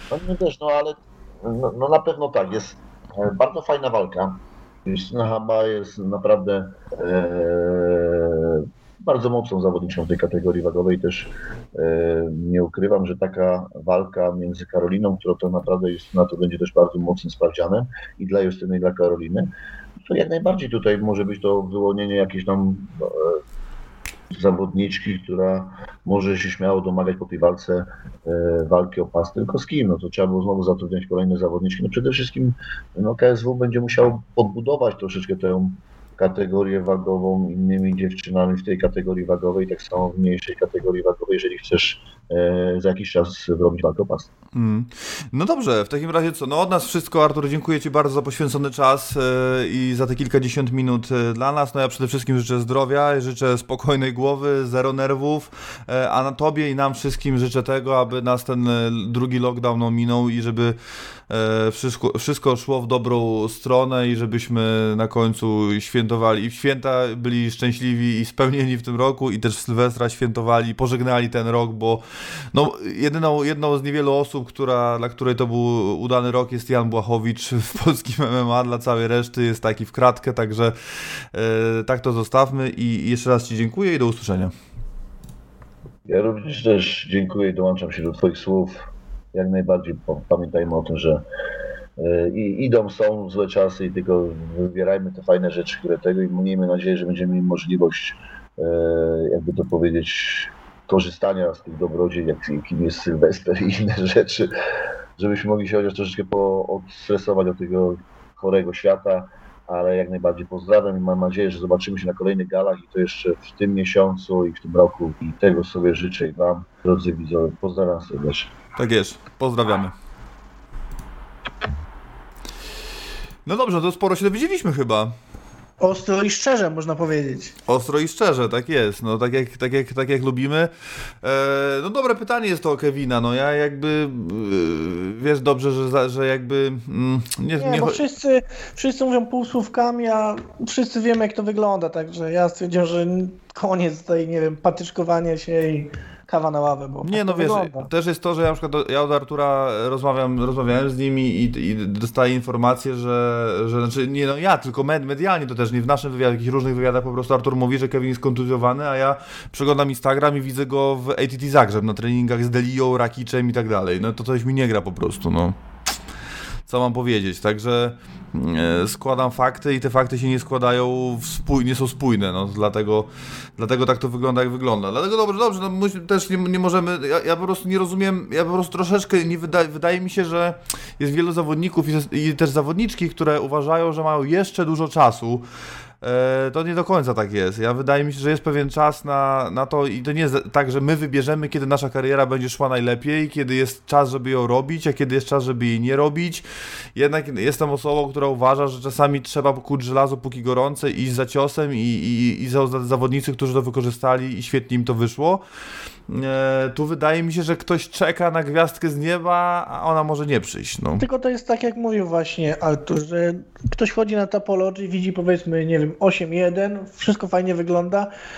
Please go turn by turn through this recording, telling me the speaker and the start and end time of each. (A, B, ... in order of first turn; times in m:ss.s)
0:00.1-0:19.5 A
0:20.0-0:23.4 A
0:24.3-0:44.3 A
0:44.5-1:00.8 B
1:01.3-1:24.5 B
1:26.1-1:28.8 A
1:29.3-1:31.2 A
1:32.0-1:44.5 A
1:45.2-1:58.5 A
1:58.8-2:00.0 B
2:03.5-2:05.2 B
2:05.8-2:07.5 C
2:07.7-2:10.7 B
2:11.2-2:18.0 B
2:17.6-2:27.9 C
2:27.0-2:45.6 B
2:46.7-3:05.5 B
3:06.0-3:25.4 B
3:26.1-3:31.0 B
3:31.0-3:38.1 C